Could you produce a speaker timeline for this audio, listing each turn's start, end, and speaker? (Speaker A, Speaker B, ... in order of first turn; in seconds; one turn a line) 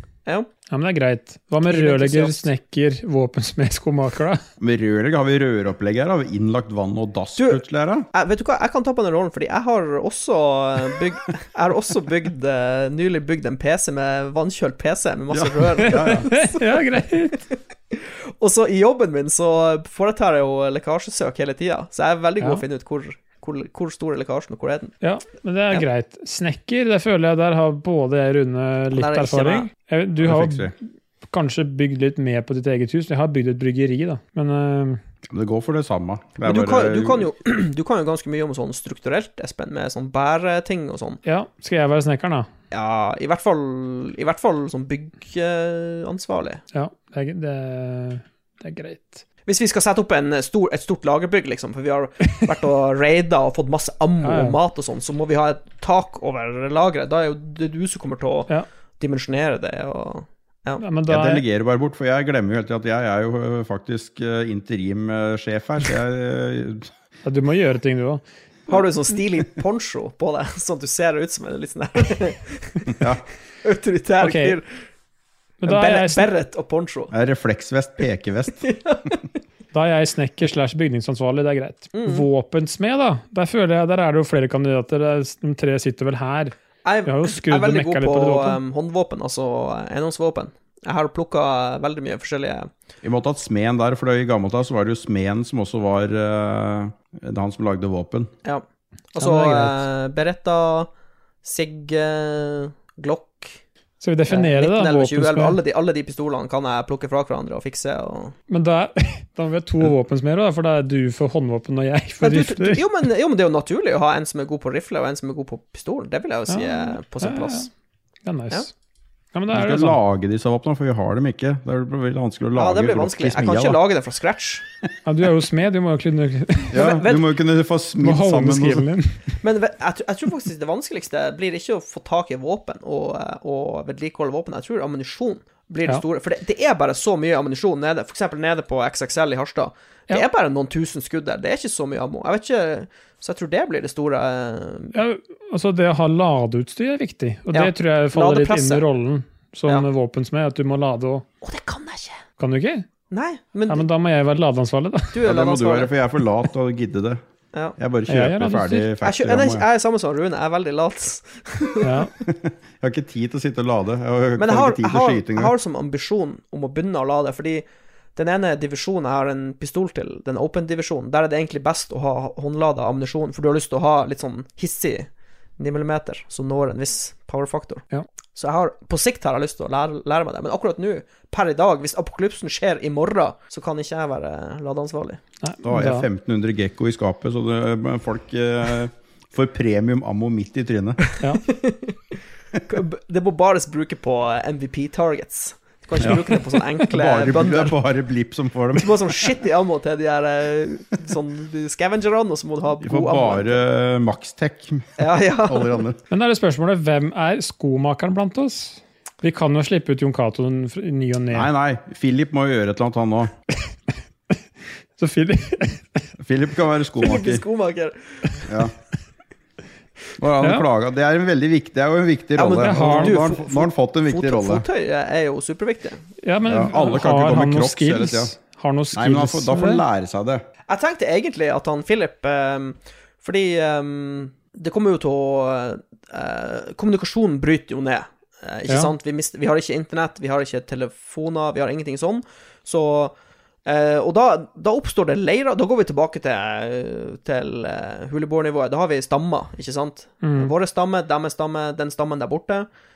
Speaker A: 0.7-4.4
Speaker B: 1.7-2.5
Speaker C: 4.6-8.1
Speaker B: 7.4-7.6
Speaker B: 8.1-24.9
Speaker C: 15.3-16.3
Speaker A: 15.8-17.4
Speaker A: 25.0-30.8
Speaker B: 28.9-29.7
Speaker C: 30.2-30.7
Speaker A: 31.3-35.0
Speaker C: 35.2-37.3
Speaker B: 36.4-41.2
Speaker A: 41.2-42.5
Speaker B: 42.7-46.6
Speaker A: 46.7-49.2
Speaker B: 49.5-60.8
Speaker A: 54.2-54.6
Speaker A: 60.8-61.4
Speaker C: 61.1-66.9
Speaker A: 67.2-68.2
Speaker B: 68.7-73.1
Speaker B: 73.6-74.7
Speaker A: 74.2-74.6
Speaker A: 75.6-76.3
Speaker B: 75.6-77.1
Speaker C: 77.1-78.7
Speaker B: 78.6-79.2
Speaker A: 79.7-86.5
Speaker B: 81.9-82.2
Speaker B: 86.8-92.7
Speaker A: 87.0-88.6
Speaker C: 93.0-98.3
Speaker B: 98.4-100.9
Speaker A: 99.2-99.8
Speaker B: 101.4-103.6
Speaker A: 104.0-105.6
Speaker B: 104.3-108.3
Speaker A: 108.5-112.8
Speaker B: 112.2-117.7
Speaker A: 116.5-117.7
Speaker A: 118.2-118.7
Speaker A: 119.3-120.0
Speaker C: 119.5-123.8
Speaker B: 122.5-124.7
Speaker A: 125.0-126.8
Speaker C: 126.7-128.9
Speaker B: 126.7-127.3
Speaker A: 128.0-129.2
Speaker B: 129.4-144.9
Speaker A: 144.9-151.2
Speaker B: 147.5-148.8
Speaker B: 151.4-152.2
Speaker A: 152.4-152.8
Speaker B: 153.1-153.8
Speaker A: 153.7-155.2
Speaker B: 155.1-155.9
Speaker C: 155.2-157.2
Speaker C: 157.8-159.6
Speaker A: 158.1-158.9
Speaker B: 159.0-162.1
Speaker A: 161.8-162.1
Speaker C: 162.2-165.5
Speaker B: 164.4-167.6
Speaker B: 168.2-177.8
Speaker B: 178.3-185.2
Speaker A: 185.4-186.1
Speaker C: 185.6-191.0
Speaker B: 191.1-197.8
Speaker C: 196.0-196.3
Speaker C: 196.8-199.3
Speaker B: 198.7-203.6
Speaker C: 202.8-206.0
Speaker B: 205.0-205.8
Speaker A: 206.1-211.5
Speaker C: 211.3-213.3
Speaker A: 215.0-216.0
Speaker C: 216.2-217.4
Speaker B: 217.0-218.4
Speaker C: 218.5-218.7
Speaker C: 220.2-224.6
Speaker A: 220.4-220.6
Speaker B: 222.4-226.0
Speaker A: 222.6-223.1
Speaker A: 226.2-229.8
Speaker C: 226.4-228.3
Speaker C: 228.9-230.4
Speaker B: 230.7-243.1
Speaker B: 243.7-252.7
Speaker A: 250.2-250.5